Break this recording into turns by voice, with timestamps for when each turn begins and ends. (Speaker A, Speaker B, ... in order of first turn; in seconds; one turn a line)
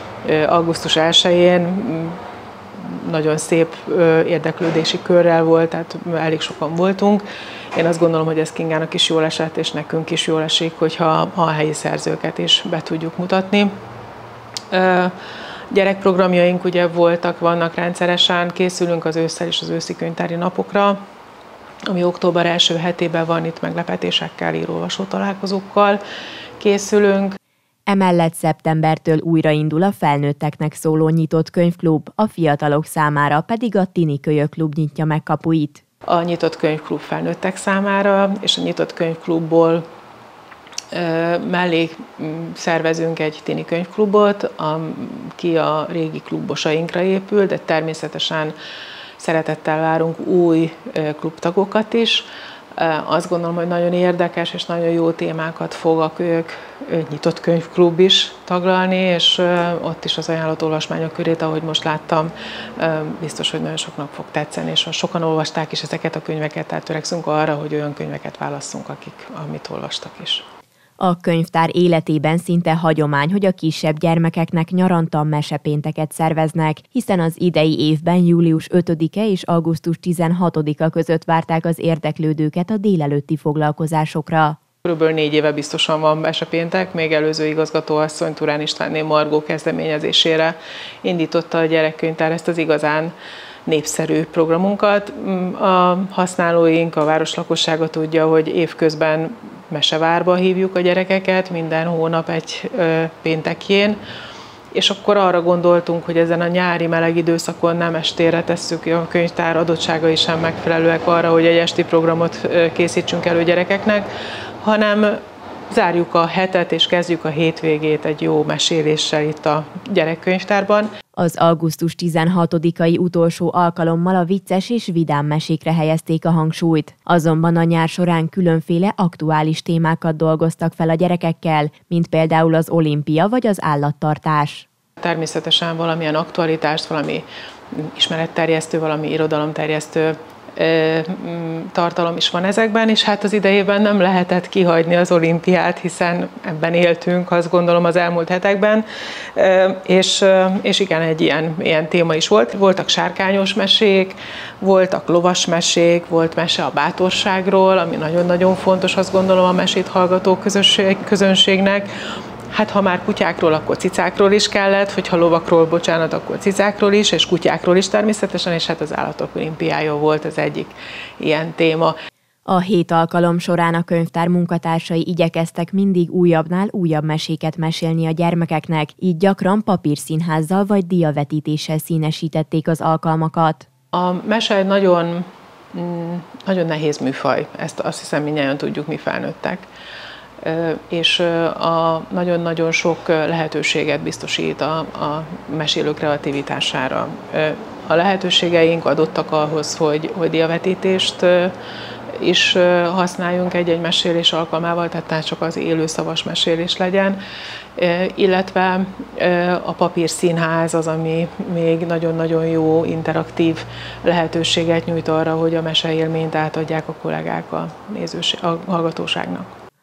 Speaker A: 0.2-2.2
Speaker A: 2.8-13.7
Speaker A: 14.7-15.1
Speaker A: 15.7-21.0
Speaker A: 21.9-26.0
Speaker A: 26.6-27.4
Speaker B: 27.9-35.8
Speaker A: 36.1-39.8
Speaker A: 40.9-48.5
Speaker A: 49.2-70.4
Speaker B: 71.0-84.6
Speaker A: 84.8-93.1
Speaker A: 93.7-104.0
Speaker A: 104.7-114.1
Speaker A: 114.6-120.9
Speaker B: 121.2-134.7
Speaker A: 135.0-161.9
Speaker A: 162.5-171.9
Speaker B: 172.5-183.7
Speaker A: 183.9-189.7
Speaker A: 190.4-201.5
Speaker A: 202.1-207.2
Speaker A: 207.8-219.5